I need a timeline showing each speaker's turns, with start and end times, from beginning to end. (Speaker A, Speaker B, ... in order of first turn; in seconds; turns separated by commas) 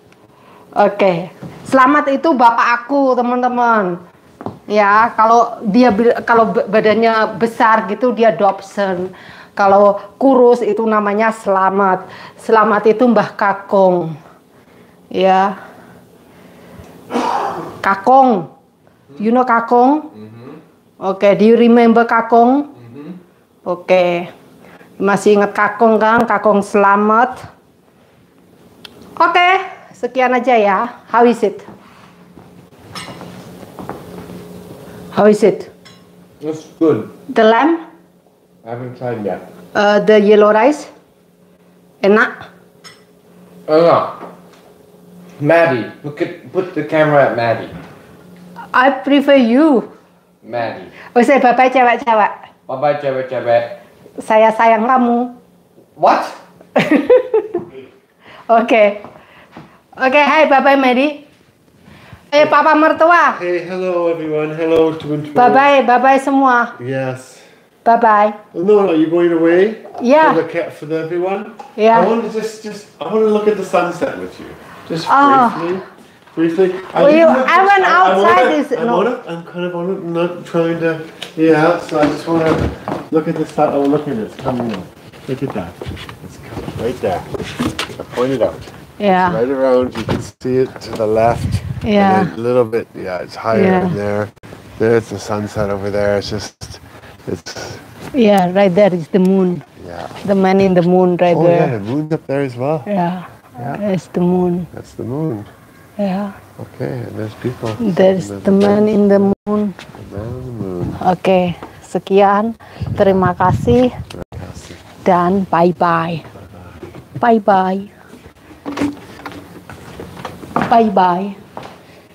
Speaker A: 0.7-4.0, Speaker A: 4.7-14.2, Speaker A: 15.1-15.5, Speaker A: 17.8-18.5, Speaker A: 19.2-20.1, Speaker B: 20.1-20.6, Speaker A: 21.0-22.7, Speaker B: 22.8-23.1, Speaker A: 23.6-24.3, Speaker A: 25.0-27.4, Speaker A: 29.2-31.6, Speaker A: 35.1-35.7, Speaker B: 36.4-37.1, Speaker A: 37.3-37.8, Speaker B: 38.6-39.4, Speaker A: 39.7-40.9, Speaker A: 42.0-42.3, Speaker B: 43.7-44.2, Speaker B: 45.4-47.7, Speaker A: 48.7-49.9, Speaker B: 50.4-50.9, Speaker A: 51.1-52.3, Speaker B: 52.7-53.7, Speaker A: 54.2-55.4, Speaker B: 56.0-56.4, Speaker A: 56.8-57.6, Speaker A: 58.5-59.0, Speaker A: 60.0-61.2, Speaker A: 62.3-63.4, Speaker C: 63.3-65.7, Speaker A: 65.3-66.7, Speaker C: 66.8-67.5, Speaker A: 67.8-68.4, Speaker C: 68.5-87.3, Speaker A: 70.0-70.4, Speaker A: 71.8-72.1, Speaker A: 75.1-75.7, Speaker A: 76.9-79.1, Speaker C: 87.8-97.8, Speaker A: 89.0-89.4, Speaker A: 91.8-92.3, Speaker A: 93.5-93.9, Speaker A: 98.1-99.6, Speaker C: 99.8-100.2, Speaker A: 100.2-101.7, Speaker C: 101.3-102.9, Speaker A: 102.9-104.7, Speaker C: 103.6-103.8, Speaker C: 104.7-105.5, Speaker A: 106.0-106.3, Speaker C: 106.6-109.2, Speaker A: 107.8-109.8, Speaker C: 109.9-111.0, Speaker A: 111.0-113.9, Speaker C: 114.1-114.8, Speaker A: 115.0-116.2, Speaker A: 117.2-117.9, Speaker A: 120.6-121.3